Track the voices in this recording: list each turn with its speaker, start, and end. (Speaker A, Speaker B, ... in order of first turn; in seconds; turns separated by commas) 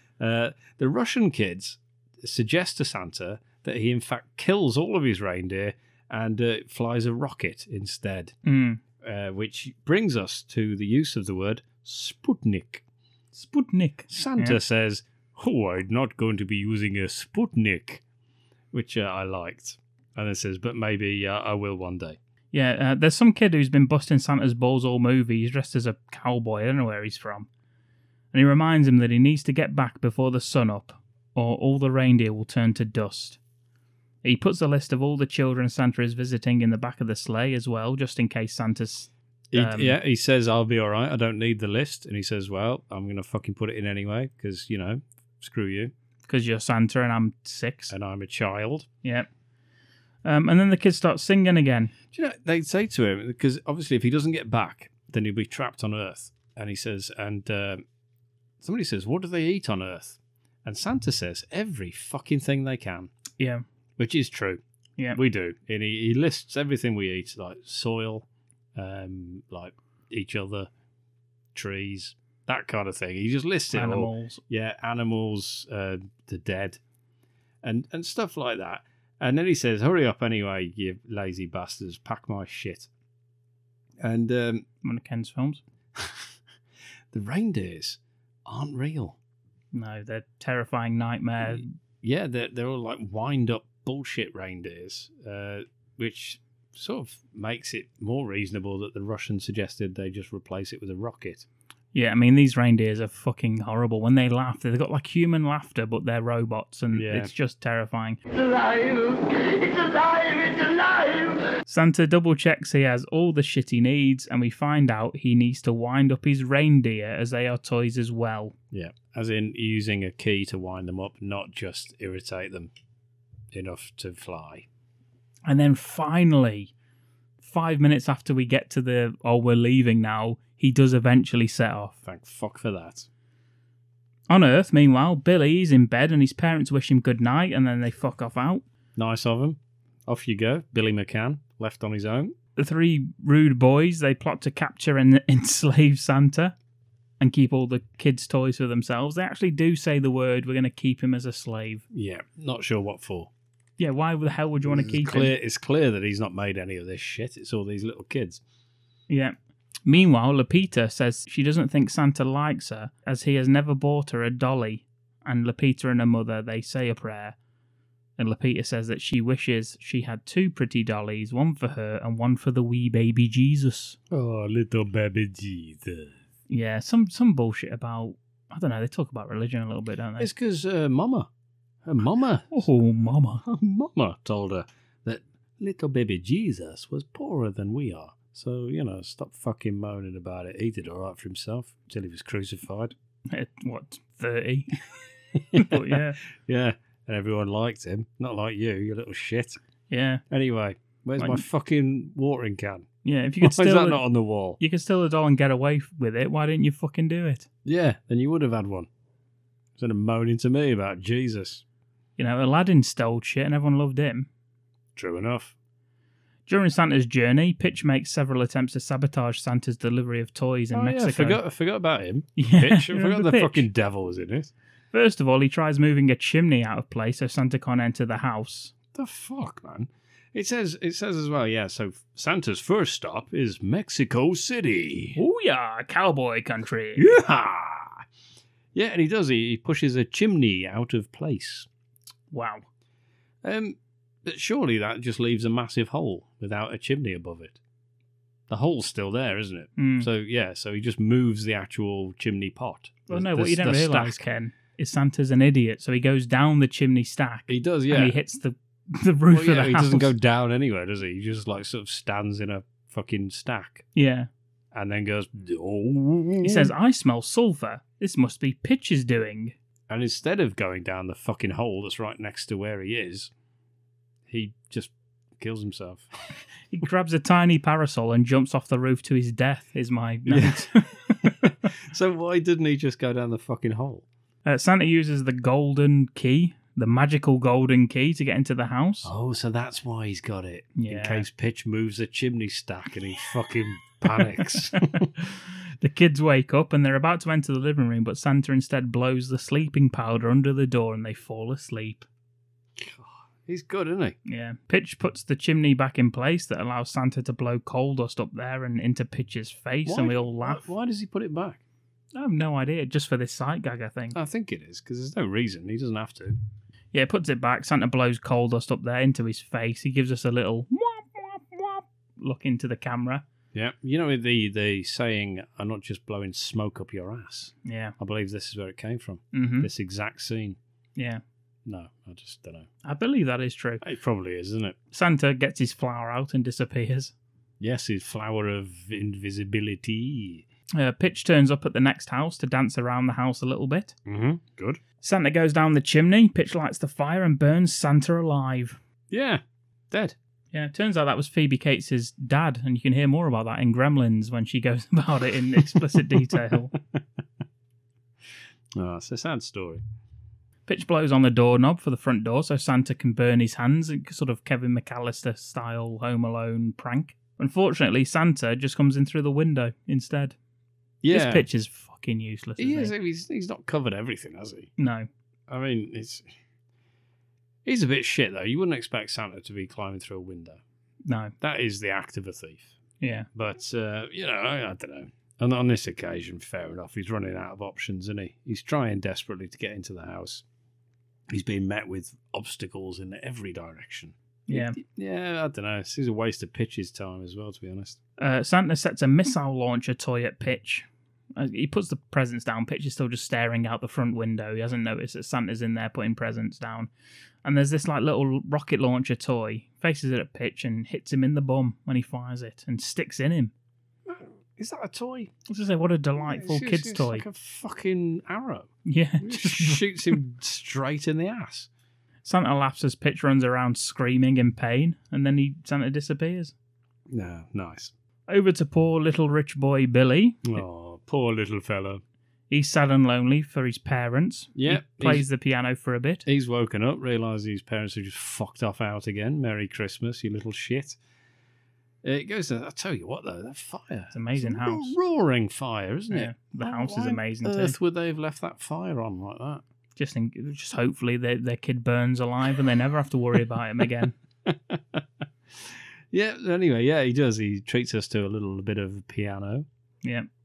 Speaker A: 0.2-8.4, Speaker B: 8.4-8.8, Speaker A: 9.0-12.8, Speaker B: 13.3-14.6, Speaker A: 14.1-18.0, Speaker A: 18.7-22.2, Speaker B: 22.5-27.5, Speaker B: 28.3-33.4, Speaker B: 34.2-40.0, Speaker A: 39.5-45.9, Speaker B: 46.3-47.9, Speaker A: 47.9-48.9, Speaker B: 49.0-49.3, Speaker B: 50.2-51.9, Speaker A: 52.1-57.8, Speaker A: 58.6-63.1, Speaker B: 63.4-63.6, Speaker A: 64.0-64.6, Speaker A: 65.1-70.7, Speaker A: 71.5-76.8, Speaker B: 73.7-74.4, Speaker A: 77.6-82.9, Speaker A: 84.0-84.6, Speaker B: 84.8-85.6, Speaker A: 86.0-86.3, Speaker A: 87.1-89.2, Speaker B: 89.7-91.7, Speaker A: 91.5-101.5, Speaker B: 101.9-108.2, Speaker A: 106.9-107.3, Speaker C: 108.3-111.6, Speaker B: 111.7-118.5, Speaker A: 118.7-122.7, Speaker A: 123.5-124.7, Speaker B: 125.5-126.7, Speaker B: 127.4-131.9, Speaker A: 132.0-133.1, Speaker B: 134.3-138.6, Speaker A: 138.9-142.3, Speaker B: 142.6-146.5, Speaker B: 147.2-151.8, Speaker A: 151.9-153.3, Speaker B: 153.8-155.3, Speaker A: 154.6-158.4, Speaker B: 159.1-159.3, Speaker B: 159.8-167.3, Speaker B: 168.2-174.0, Speaker A: 174.1-176.1, Speaker B: 176.5-180.3, Speaker A: 180.2-181.3, Speaker A: 181.8-182.7, Speaker B: 182.5-183.4, Speaker A: 183.4-192.9, Speaker B: 193.3-194.8, Speaker A: 195.3-199.6, Speaker B: 195.5-196.2, Speaker B: 199.9-200.2, Speaker A: 200.3-202.9, Speaker B: 201.2-201.4, Speaker B: 203.0-204.0, Speaker A: 203.4-204.6, Speaker B: 204.6-207.5, Speaker A: 207.6-208.9, Speaker A: 209.8-211.6, Speaker B: 212.2-214.3, Speaker A: 214.9-215.5, Speaker B: 216.5-221.4, Speaker A: 220.7-224.5, Speaker B: 222.4-223.7, Speaker B: 224.9-228.7, Speaker A: 228.9-235.2, Speaker B: 235.2-237.1, Speaker A: 236.9-238.0, Speaker A: 238.7-241.7, Speaker B: 242.3-242.6, Speaker A: 243.4-247.6, Speaker A: 248.5-254.2, Speaker B: 249.8-250.1, Speaker B: 253.1-260.1, Speaker A: 257.5-258.1, Speaker A: 259.3-263.9, Speaker B: 263.9-264.3, Speaker A: 264.7-266.7, Speaker B: 266.4-269.5, Speaker A: 269.9-273.3, Speaker A: 274.3-276.1, Speaker B: 276.7-281.4, Speaker A: 280.3-284.0, Speaker B: 284.4-289.1, Speaker A: 289.0-295.1, Speaker B: 290.8-291.2, Speaker B: 294.9-302.1, Speaker A: 302.8-304.1, Speaker B: 304.2-310.6, Speaker A: 309.9-311.6, Speaker B: 312.1-314.2, Speaker A: 314.1-316.4, Speaker B: 316.9-323.2, Speaker A: 323.5-330.6, Speaker B: 327.6-327.9, Speaker B: 329.3-329.7, Speaker B: 330.9-331.2, Speaker A: 331.6-332.7, Speaker B: 332.8-333.8, Speaker A: 333.8-334.8, Speaker B: 334.9-337.1, Speaker A: 337.6-340.4, Speaker B: 340.8-343.9, Speaker A: 344.1-344.8, Speaker B: 345.0-348.8, Speaker A: 349.1-350.1, Speaker B: 350.5-356.7, Speaker A: 355.8-357.0, Speaker A: 358.7-359.8, Speaker B: 360.7-370.3, Speaker A: 371.0-371.4, Speaker B: 371.1-372.9, Speaker A: 372.6-374.7, Speaker B: 374.8-375.1, Speaker A: 375.5-376.2, Speaker A: 377.6-380.6, Speaker B: 381.1-381.3, Speaker A: 381.4-382.8, Speaker B: 383.0-383.3, Speaker A: 383.3-390.4, Speaker A: 391.3-398.0, Speaker B: 394.5-394.8, Speaker B: 398.2-406.9, Speaker B: 407.4-413.5, Speaker A: 414.1-415.3, Speaker B: 415.5-417.2, Speaker A: 416.2-421.7, Speaker B: 418.9-420.2, Speaker B: 422.2-426.5, Speaker A: 427.1-427.9, Speaker B: 428.3-430.6, Speaker A: 430.4-432.0, Speaker B: 432.5-436.2, Speaker A: 434.5-435.3, Speaker A: 436.2-441.0, Speaker A: 442.0-449.6, Speaker B: 444.1-444.9, Speaker B: 446.1-447.8, Speaker B: 450.0-454.1, Speaker A: 454.4-455.0, Speaker A: 455.6-459.7